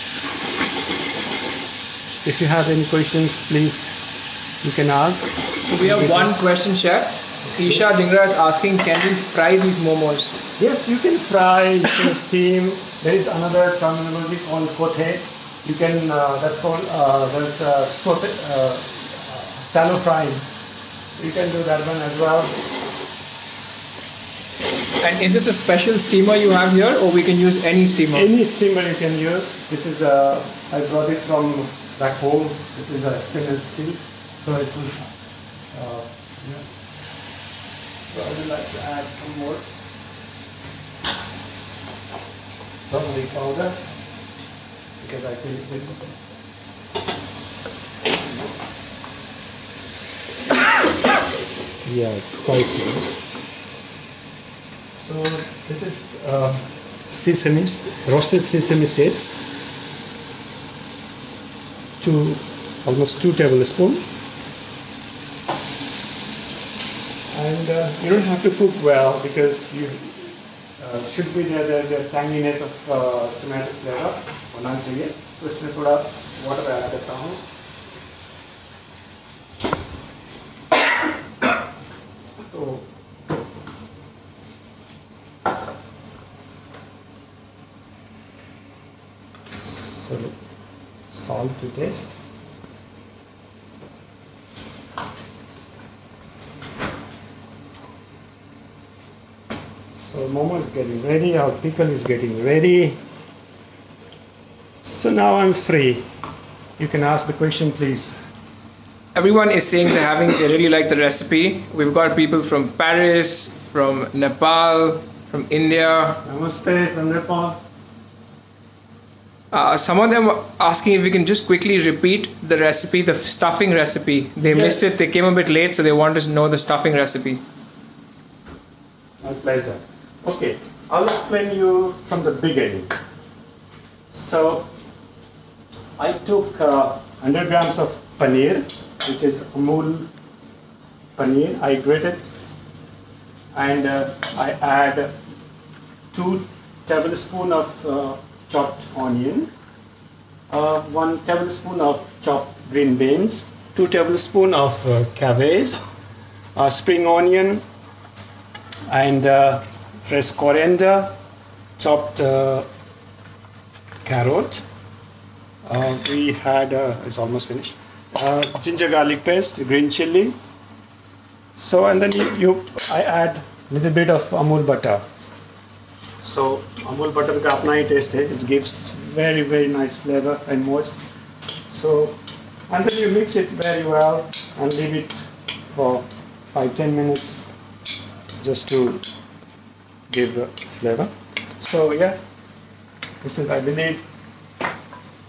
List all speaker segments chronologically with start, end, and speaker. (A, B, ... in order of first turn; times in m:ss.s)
0:02.2-0:04.0 A
0:04.6-0:06.3 A
0:05.7-0:10.4 B
0:07.5-0:07.8 A
0:10.6-0:20.5 A
0:21.2-0:22.6 A
0:25.0-0:28.3 B
0:28.1-0:35.1 A
0:35.7-0:36.6 A
0:38.1-0:39.6 A
0:42.9-0:43.8 A
0:45.0-0:46.1 A
0:48.1-0:48.5 A
0:51.8-0:53.1 A
0:54.9-0:59.4 A
1:02.0-1:04.0 A
1:07.3-1:17.4 A
1:22.5-1:22.9 A
1:29.6-1:30.4 A
1:31.1-1:32.2 A
1:39.9-1:43.0 A
1:44.8-1:46.1 A
1:46.8-1:48.3 A
1:49.1-1:56.2 B
1:56.2-1:57.6 A
1:59.5-2:07.4 B
2:04.4-2:05.0 A
2:09.2-2:13.0 A
2:14.1-2:14.7 A
2:16.0-2:20.1 A
2:21.2-2:22.3 A
2:23.5-2:25.2 A
2:26.1-2:29.5 A
2:30.5-2:35.8 A
2:36.6-2:37.6 A
2:38.9-2:41.2 A
2:41.8-2:42.7 A
2:44.0-2:44.6 A
2:45.6-2:50.4 A
2:51.6-2:55.0 A
2:56.2-3:01.0 A
3:01.7-3:02.2 A
3:02.7-3:07.5 A
3:08.4-3:09.0 A
3:10.1-3:12.2 A
3:13.2-3:14.0 A